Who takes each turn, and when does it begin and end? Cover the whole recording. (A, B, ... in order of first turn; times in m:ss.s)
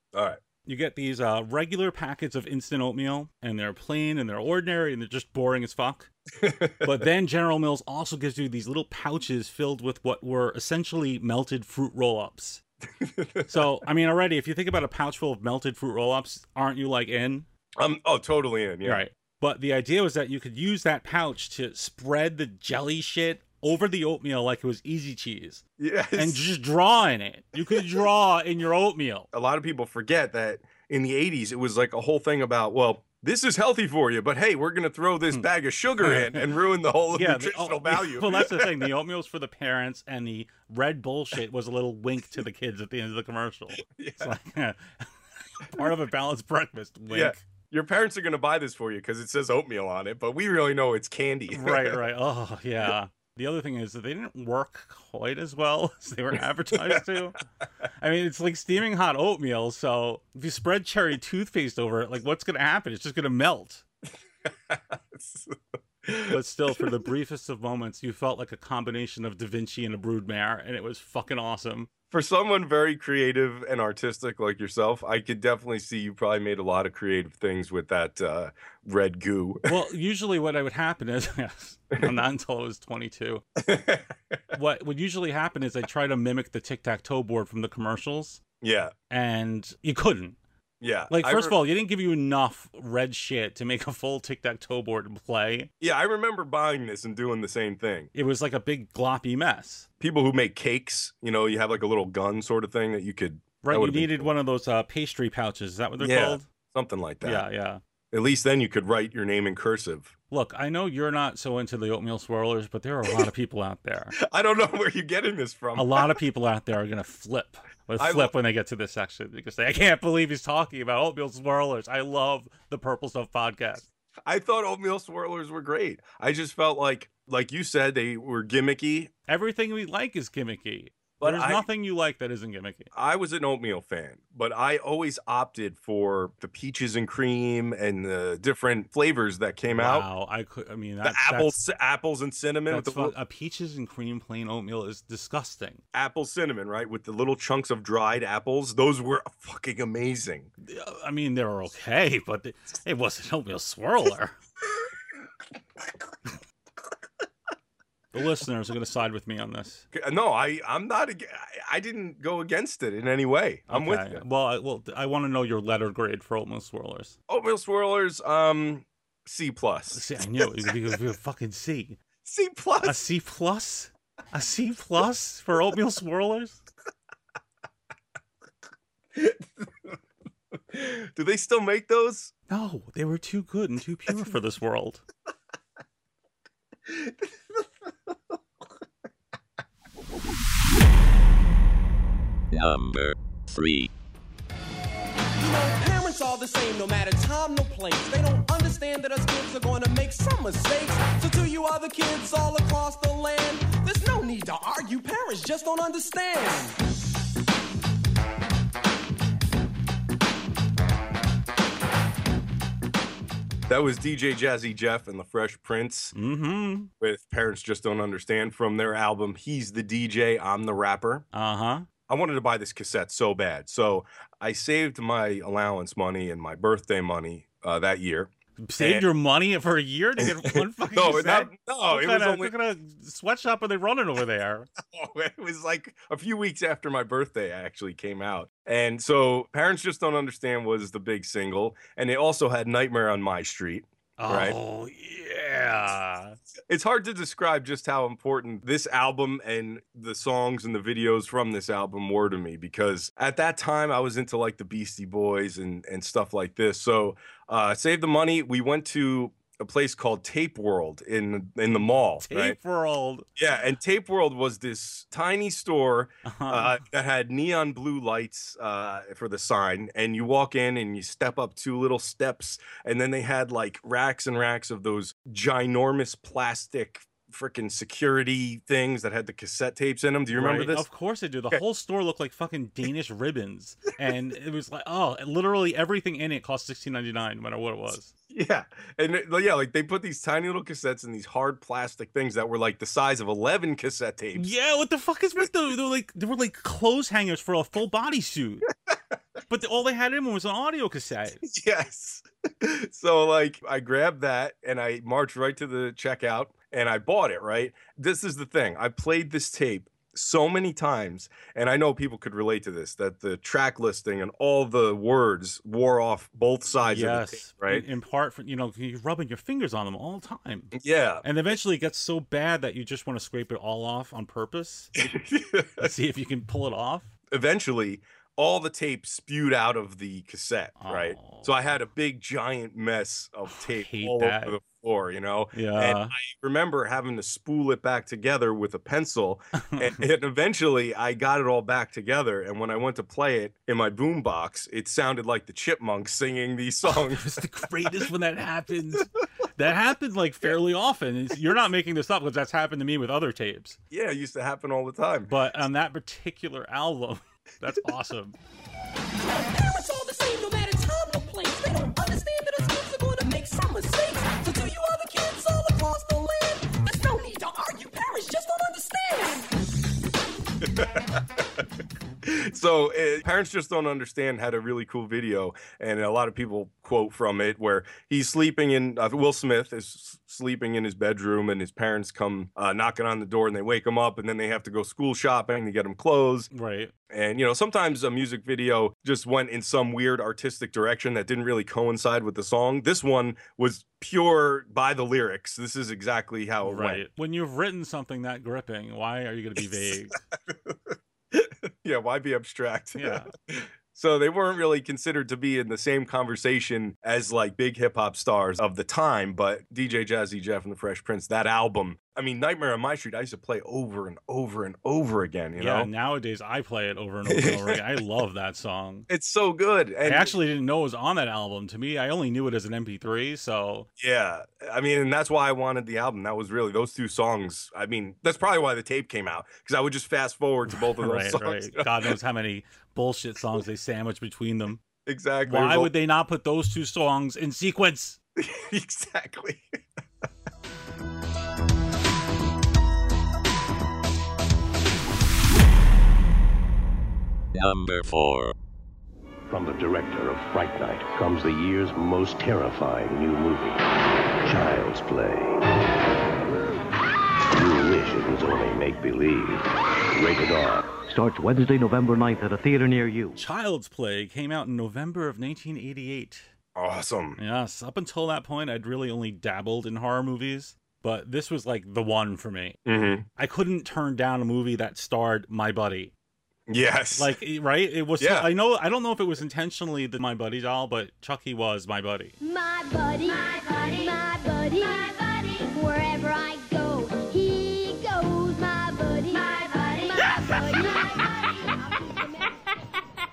0:00.1-0:00.4 A
0:00.6-0:06.1 B
0:06.4-0:07.0 A
0:06.8-0:12.6 B
0:13.0-0:13.8 A
0:13.5-0:17.5 B
0:17.8-0:19.1 A
0:18.8-0:25.6 B
0:25.8-0:26.4 A
0:26.2-0:29.3 B
0:29.3-0:38.9 A
0:36.0-0:36.5 B
0:37.1-0:47.4 B
0:43.8-0:44.3 A
0:47.1-0:52.0 A
0:51.5-0:57.4 B
0:56.7-0:57.0 A
0:58.0-1:03.8 B
1:04.5-1:06.9 A
1:06.3-1:11.9 B
1:12.1-1:19.7 A
1:19.6-1:23.4 B
1:23.6-1:24.4 A
1:24.5-1:28.4 B
1:28.6-1:28.9 A
1:29.1-1:30.4 B
1:30.8-1:31.6 A
1:31.1-1:35.7 B
1:35.8-1:38.1 A
1:38.1-1:39.9 B
1:40.0-1:44.3 A
1:43.6-1:46.5 B
1:46.0-1:47.5 A
1:47.2-1:47.8 B
1:48.1-1:50.1 A
1:50.3-1:54.2 B
1:54.2-1:56.2 A
1:55.8-2:03.9 B
1:58.0-1:58.3 A
2:04.3-2:09.1 A
2:09.3-2:12.9 B
2:11.2-2:11.6 A
2:12.9-2:20.1 A
2:19.7-2:21.6 B
2:21.0-2:23.2 A
2:22.7-2:25.8 B
2:25.9-2:30.5 A
2:30.6-2:34.4 B
2:38.1-2:39.9 B
2:39.9-2:44.2 A
2:43.7-2:47.2 B
2:47.3-2:50.7 A
2:49.9-2:52.0 B
2:52.2-2:53.0 A
2:52.8-2:56.6 B
2:59.2-2:59.9 A
3:00.7-3:02.3 A
3:02.5-3:05.0 B
3:06.9-3:07.6 A
3:12.5-3:13.9 C
3:15.4-3:26.8 D
3:33.7-3:36.1 A
3:36.1-3:36.9 B
3:37.0-3:41.2 A
3:41.3-3:41.9 B
3:42.1-3:49.1 A
3:48.6-3:54.7 B
3:50.2-3:52.5 A
3:54.8-4:04.6 A
4:04.2-4:06.4 B
4:06.7-4:22.6 A
4:22.2-4:23.3 B
4:23.4-4:40.9 A
4:26.2-4:26.8 B
4:40.3-4:48.1 B
4:48.3-4:54.5 A
4:54.3-4:58.7 B
4:59.5-5:01.4 B
5:01.4-5:17.8 A
5:16.9-5:24.9 B
5:20.7-5:21.2 A
5:25.0-5:25.9 A
5:25.8-5:27.1 B
5:27.3-5:47.3 A
5:30.8-5:31.5 B
5:33.5-5:34.6 B
5:35.5-5:36.1 B
5:39.6-5:40.0 B
5:46.8-5:53.8 B
5:53.9-5:55.3 A
5:55.3-5:58.4 B
5:59.2-6:09.5 D
6:10.6-6:11.4 A
6:12.2-6:26.5 A
6:26.5-6:26.9 B
6:27.1-6:37.0 A
6:36.6-6:40.2 B
6:40.4-6:55.9 A
6:43.0-6:43.3 B
6:55.6-6:59.1 B
6:57.3-6:57.8 A
6:59.1-7:00.4 A
7:00.0-7:03.9 B
7:04.0-7:12.2 A
7:10.7-7:14.8 B
7:15.1-7:15.9 A
7:15.4-7:18.2 B
7:18.4-7:19.7 A
7:27.5-7:28.5 C
7:29.5-7:33.8 E
7:34.4-7:35.6 E
7:37.5-7:41.0 E
7:41.1-7:43.4 F
7:43.4-7:46.5 B
7:46.8-7:47.4 A
7:47.4-7:52.8 B
7:52.9-7:53.2 A
7:53.4-7:56.1 B
7:56.7-7:57.4 A
7:57.2-8:02.4 B
7:58.2-7:58.5 A
8:02.4-8:12.6 G